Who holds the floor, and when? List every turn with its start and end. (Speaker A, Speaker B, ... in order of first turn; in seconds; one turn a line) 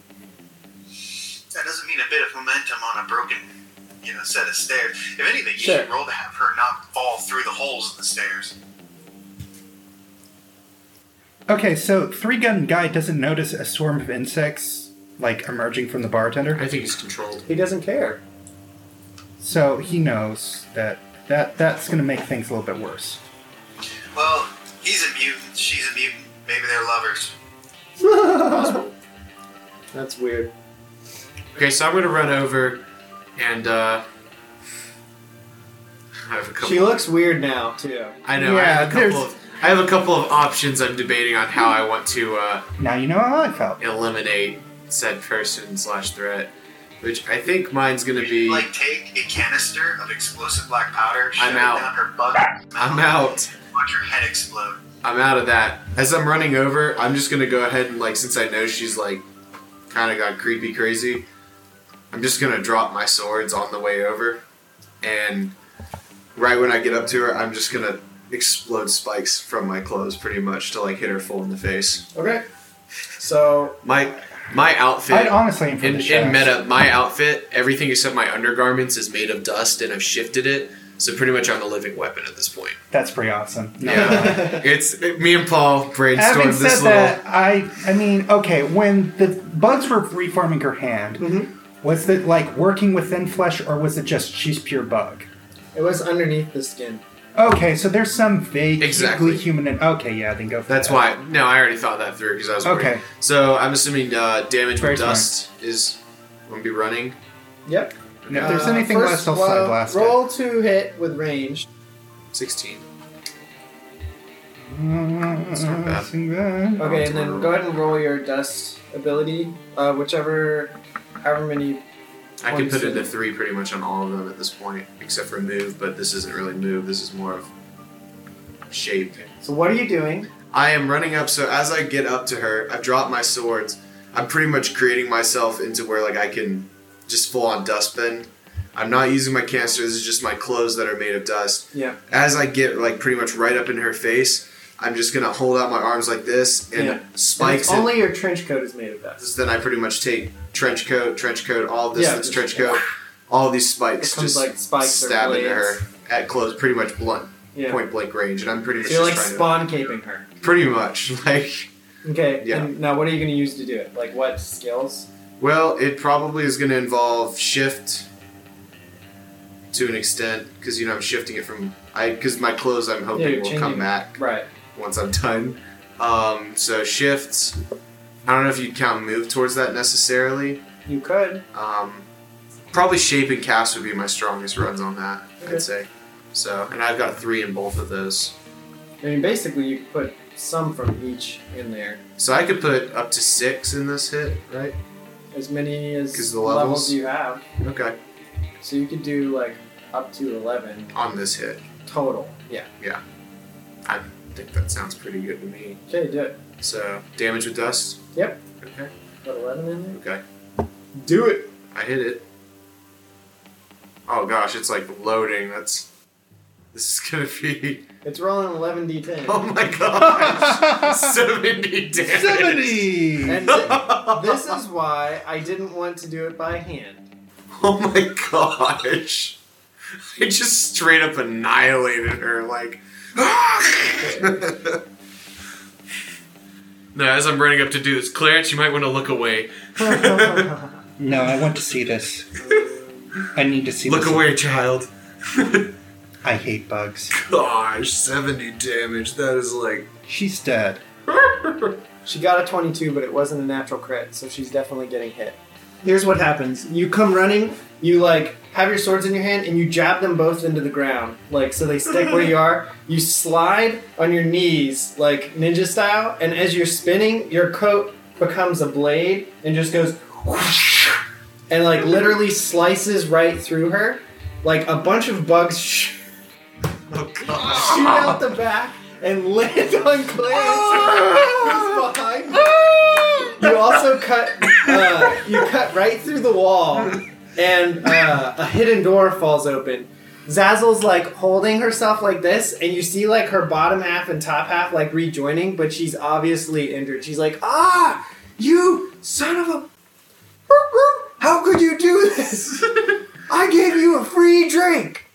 Speaker A: 1.5-3.5
Speaker A: 4.0-8.6
Speaker B: 5.6-5.9
Speaker C: 11.5-16.7
Speaker D: 16.6-17.5
Speaker B: 17.5-18.2
Speaker C: 19.4-23.2
Speaker A: 24.1-27.3
Speaker B: 28.0-28.8
Speaker D: 28.4-28.9
Speaker B: 29.9-30.5
Speaker D: 31.6-32.8
Speaker D: 33.4-34.0
Speaker D: 36.2-37.0
Speaker B: 36.6-38.2
Speaker D: 38.2-42.7
Speaker C: 38.4-39.3
Speaker C: 42.8-43.8
Speaker D: 43.8-48.7
Speaker A: 48.2-54.8
Speaker D: 51.4-51.9
Speaker D: 52.8-53.5
Speaker D: 55.0-59.2
Speaker D: 59.9-61.3
Speaker D: 62.1-64.4
Speaker D: 65.0-65.5
Speaker D: 66.3-72.1
Speaker B: 72.1-72.5
Speaker B: 73.2-73.8
Speaker D: 73.8-82.8
Speaker C: 75.1-76.5
Speaker C: 82.9-84.6
Speaker D: 83.8-87.2
Speaker B: 84.0-84.6
Speaker C: 86.2-95.3
Speaker B: 91.2-91.5
Speaker B: 95.7-97.0
Speaker C: 97.4-101.1
Speaker D: 98.8-99.5
Speaker D: 100.7-107.2
Speaker C: 102.6-103.0
Speaker C: 104.8-105.3
Speaker B: 107.7-111.7
Speaker D: 108.2-108.7
Speaker C: 108.3-110.2
Speaker D: 112.3-112.9
Speaker C: 114.6-117.0
Speaker D: 115.5-116.1
Speaker D: 116.8-117.7
Speaker B: 116.8-121.8
Speaker D: 122.4-127.5
Speaker B: 122.5-123.1
Speaker D: 128.7-129.3
Speaker B: 129.4-130.3
Speaker D: 130.5-148.0
Speaker B: 146.7-149.2
Speaker D: 149.2-159.6
Speaker B: 151.9-152.8
Speaker B: 154.0-155.8
Speaker B: 157.5-157.8
Speaker B: 158.8-160.3
Speaker D: 160.4-161.7
Speaker B: 162.0-165.1
Speaker D: 162.4-162.7
Speaker D: 165.4-168.1
Speaker D: 169.7-174.2
Speaker B: 173.2-174.5
Speaker D: 174.7-177.6
Speaker D: 178.2-180.6
Speaker B: 180.9-181.4
Speaker D: 181.5-182.1
Speaker D: 182.7-188.3
Speaker B: 189.0-192.0
Speaker D: 192.2-194.8
Speaker B: 195.3-197.4
Speaker D: 196.1-197.0
Speaker D: 197.6-198.0
Speaker B: 198.6-200.9
Speaker D: 200.9-201.6
Speaker B: 201.9-202.7
Speaker D: 203.8-205.8
Speaker B: 205.9-206.4
Speaker D: 206.6-208.0
Speaker B: 208.2-208.4
Speaker D: 208.6-208.9
Speaker B: 209.2-210.0
Speaker D: 209.9-210.2
Speaker B: 211.0-211.5
Speaker D: 211.7-212.2
Speaker D: 214.1-215.9
Speaker D: 216.7-217.9
Speaker B: 218.0-219.5
Speaker D: 219.3-224.6
Speaker C: 220.0-221.2
Speaker C: 222.0-223.6
Speaker B: 223.2-227.1
Speaker D: 227.5-229.4
Speaker D: 230.1-234.8
Speaker B: 234.0-234.4
Speaker D: 236.9-240.5
Speaker B: 239.8-240.7
Speaker C: 241.0-242.3
Speaker B: 242.4-243.1
Speaker C: 243.3-244.3
Speaker D: 243.8-245.8
Speaker C: 246.2-247.1
Speaker D: 247.1-249.9
Speaker C: 250.1-250.8
Speaker D: 251.1-251.8
Speaker B: 252.1-270.9
Speaker B: 271.5-276.0
Speaker D: 276.9-278.2
Speaker B: 277.2-299.7
Speaker D: 280.7-281.5
Speaker D: 282.5-283.7
Speaker D: 284.5-285.3
Speaker B: 300.5-305.1